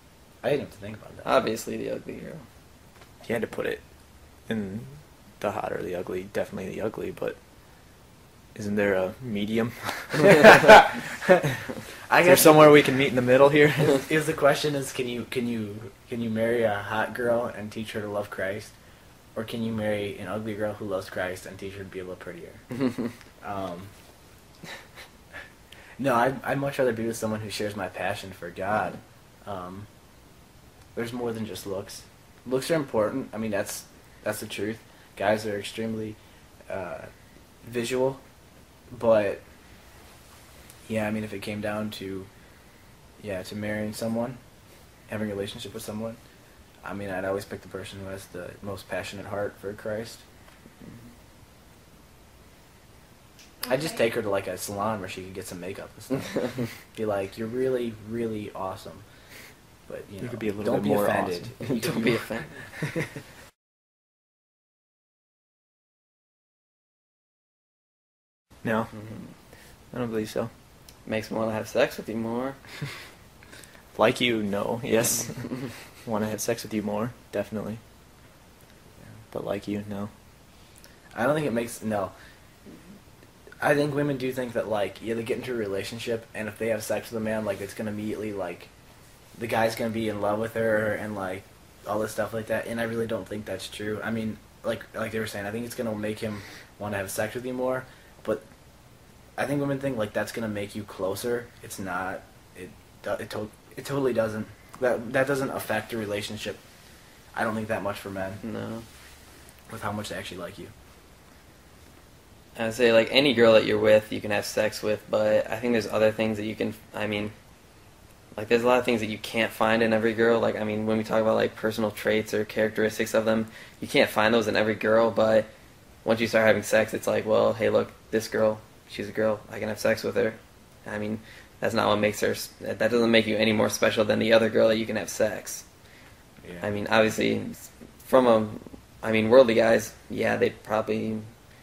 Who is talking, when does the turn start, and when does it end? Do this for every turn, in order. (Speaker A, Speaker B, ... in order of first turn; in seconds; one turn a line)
Speaker A: 0.4-1.3
Speaker B: 1.2-2.4
Speaker C: 3.2-3.8
Speaker C: 4.5-7.4
Speaker C: 8.5-10.7
Speaker A: 10.2-12.9
Speaker C: 12.2-14.0
Speaker A: 13.9-18.7
Speaker A: 19.3-22.6
Speaker A: 23.4-23.9
Speaker A: 26.0-29.9
Speaker A: 30.9-36.2
Speaker A: 36.7-37.1
Speaker A: 37.6-38.2
Speaker A: 38.9-39.4
Speaker A: 40.9-42.3
Speaker A: 43.2-44.4
Speaker A: 45.1-46.2
Speaker A: 46.8-50.2
Speaker A: 53.6-59.0
Speaker A: 59.9-62.2
Speaker C: 60.2-61.5
Speaker B: 61.6-62.5
Speaker A: 62.7-63.0
Speaker C: 68.6-68.9
Speaker B: 68.9-69.3
Speaker C: 69.9-70.5
Speaker B: 71.0-72.6
Speaker C: 73.9-77.8
Speaker C: 79.3-80.1
Speaker A: 81.1-82.1
Speaker A: 83.6-88.7
Speaker A: 89.3-98.4
Speaker A: 99.4-106.6
Speaker A: 107.3-108.4
Speaker B: 108.4-108.8
Speaker A: 109.7-110.7
Speaker B: 112.5-117.3
Speaker B: 118.3-125.5
Speaker B: 126.0-135.7
Speaker A: 136.4-136.7
Speaker B: 136.6-141.3